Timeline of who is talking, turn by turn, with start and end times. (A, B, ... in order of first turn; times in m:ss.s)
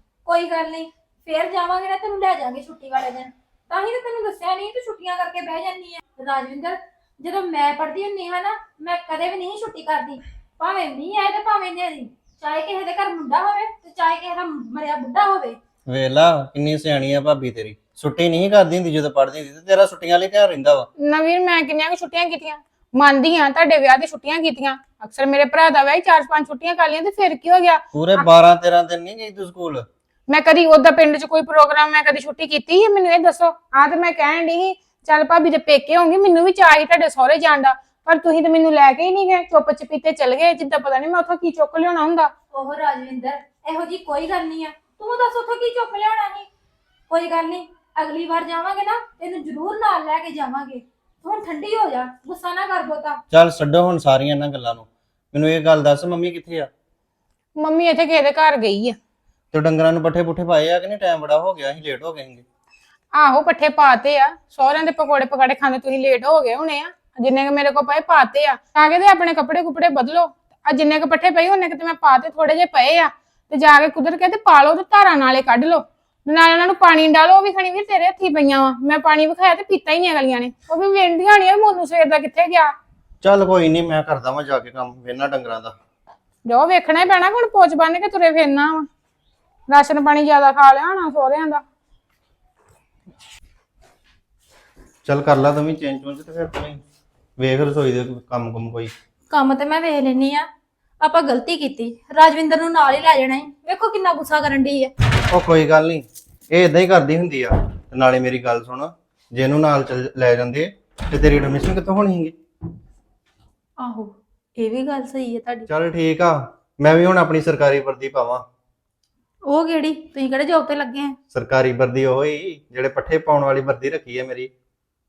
0:00.2-0:15.6 A
0:15.9-0:20.9 B
0:21.0-0:28.3 C
0:27.9-0:29.8 B
0:30.3-0:42.3 C
0:42.5-0:46.5 A
0:47.1-0:53.2 A
0:53.3-0:56.7 B
0:57.6-0:59.0 C
0:59.5-1:02.4 B
1:03.1-1:22.7 C
1:23.2-1:25.7 B
1:26.4-1:28.9 C
1:29.7-1:31.6 C
1:35.1-1:36.8 B
1:37.4-1:38.9 B
1:39.3-1:40.5 A
1:41.0-1:44.9 A
1:45.3-1:52.4 B
1:53.8-1:55.7 A
1:55.7-1:58.4 B
1:59.4-2:01.2 A
2:01.3-2:04.5 B